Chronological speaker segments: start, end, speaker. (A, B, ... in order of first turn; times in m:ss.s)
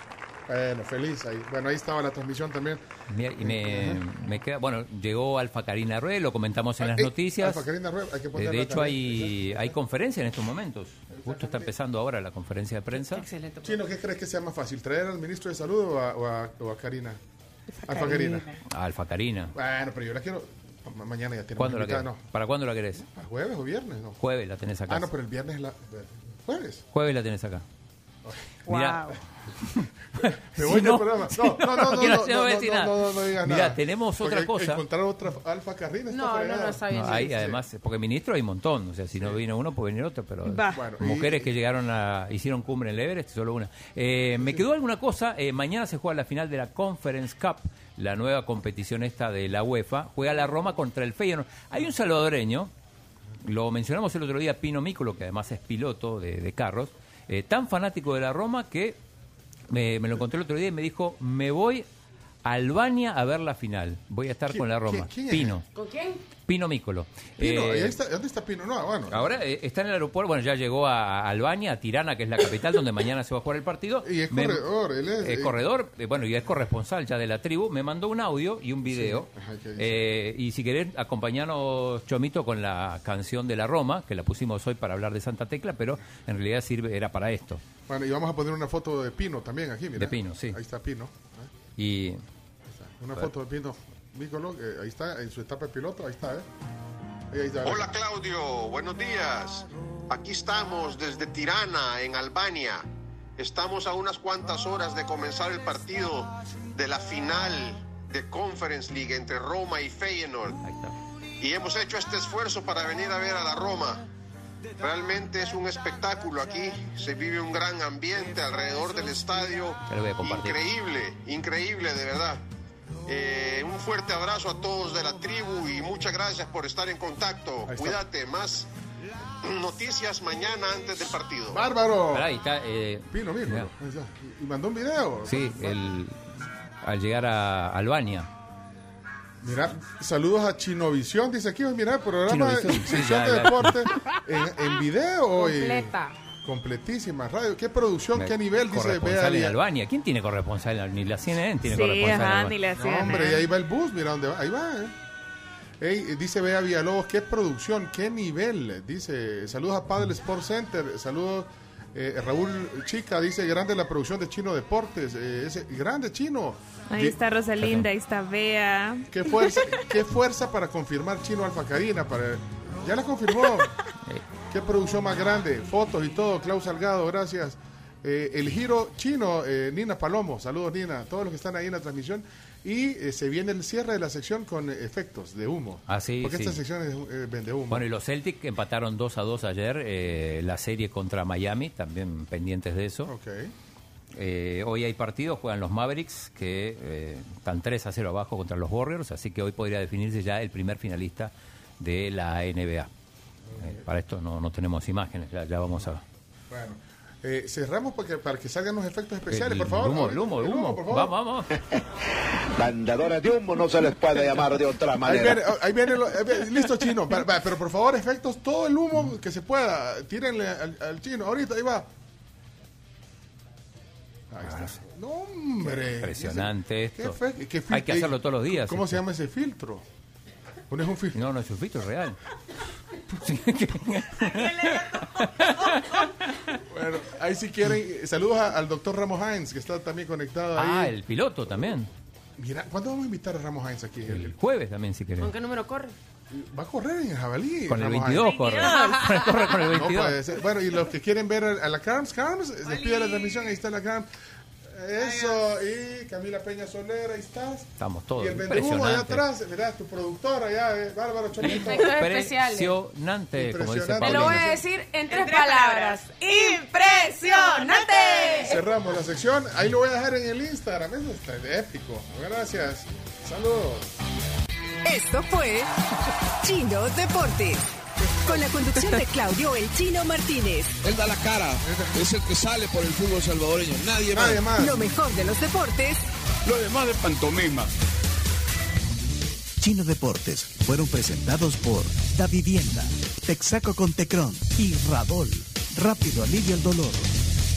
0:00.5-0:02.8 A
0:03.1-0:07.6 B
0:03.4-0:04.0 A
0:06.8-0:09.8 A
0:08.3-0:13.2 B
0:11.1-0:11.7 A
0:12.9-0:13.8 C
0:13.6-0:17.2 A
0:17.8-0:18.5 A
0:18.6-0:19.5 B
0:19.5-0:22.2 A
0:21.6-0:23.0 B
0:23.0-0:24.2 A
0:24.2-0:25.1 B
0:24.9-0:26.8 A
0:26.9-0:27.6 B
0:28.7-0:29.2 D
0:28.7-0:34.8 B
0:30.2-0:37.6 A
0:36.1-0:37.4 C
0:36.9-0:52.7 B
0:40.4-0:40.8 D
0:40.7-0:41.5 A
0:44.4-0:44.6 A
0:53.4-0:59.0 B
0:59.7-1:01.8 B
1:02.4-1:05.6 B
1:04.5-1:05.6 A
1:05.7-1:06.2 C
1:06.4-1:08.0 B
1:07.4-1:09.4 A
1:09.1-1:14.6 B
1:14.0-1:15.6 A
1:15.2-1:27.6 B
1:18.8-1:20.1 A
1:27.9-1:31.5 A
1:30.0-1:30.6 B
1:31.8-1:32.2 B
1:32.7-1:36.5 A
1:37.3-1:38.0 A
1:37.6-1:42.8 E
1:43.4-1:50.6 E
1:50.6-1:51.0 B
1:51.4-1:54.0 E
1:54.8-2:02.4 E
1:59.9-2:00.6 B
2:03.0-2:08.7 E
2:07.6-2:08.0 A
2:09.4-2:11.6 E
2:11.5-2:12.3 A
2:12.1-2:13.7 B
2:13.1-2:15.8 A
2:15.2-2:16.2 B
2:16.8-2:18.3 B
2:19.4-2:29.6 A
2:22.3-2:23.8 B
2:25.4-2:26.2 C
2:28.1-2:32.6 B
2:31.6-2:33.4 D
2:32.8-2:34.9 A
2:35.8-2:47.2 A
2:46.9-2:49.7 D
2:47.6-2:47.9 B
2:49.1-2:53.8 A
2:54.5-3:07.8 A
3:05.9-3:06.6 B
3:07.7-3:13.1 B
3:13.0-3:13.5 A
3:14.1-3:22.9 B
3:23.5-3:23.8 A
3:23.6-3:26.0 B
3:26.5-3:31.2 A
3:29.3-3:31.6 B
3:32.5-3:35.4 F
3:35.0-3:41.9 A
3:44.3-3:49.8 A
3:44.4-3:44.8 B
3:45.6-3:47.2 B
3:47.7-3:49.0 B
3:50.7-3:51.2 A
3:51.1-3:52.2 B
3:53.1-3:56.5 B
3:56.7-4:01.0 A
4:00.5-4:01.9 B
4:02.4-4:04.3 A
4:04.1-4:05.3 B
4:05.2-4:05.9 C
4:06.3-4:08.7 A
4:07.7-4:10.2 B
4:08.3-4:08.7 D
4:09.6-4:14.1 A
4:14.7-4:21.9 A
4:17.8-4:19.2 B
4:21.4-4:22.7 C
4:21.6-4:24.6 B
4:23.3-4:24.6 A
4:24.0-4:28.6 C
4:25.1-4:26.6 D
4:27.2-4:28.4 D
4:28.4-4:33.9 A
4:34.8-4:35.7 G
4:36.4-4:37.6 G
4:38.2-4:40.7 G
4:40.8-4:44.4 H
4:41.6-4:42.0 A
4:44.1-4:44.8 A
4:44.6-4:46.0 G
4:46.4-4:47.7 H
4:49.6-4:57.1 I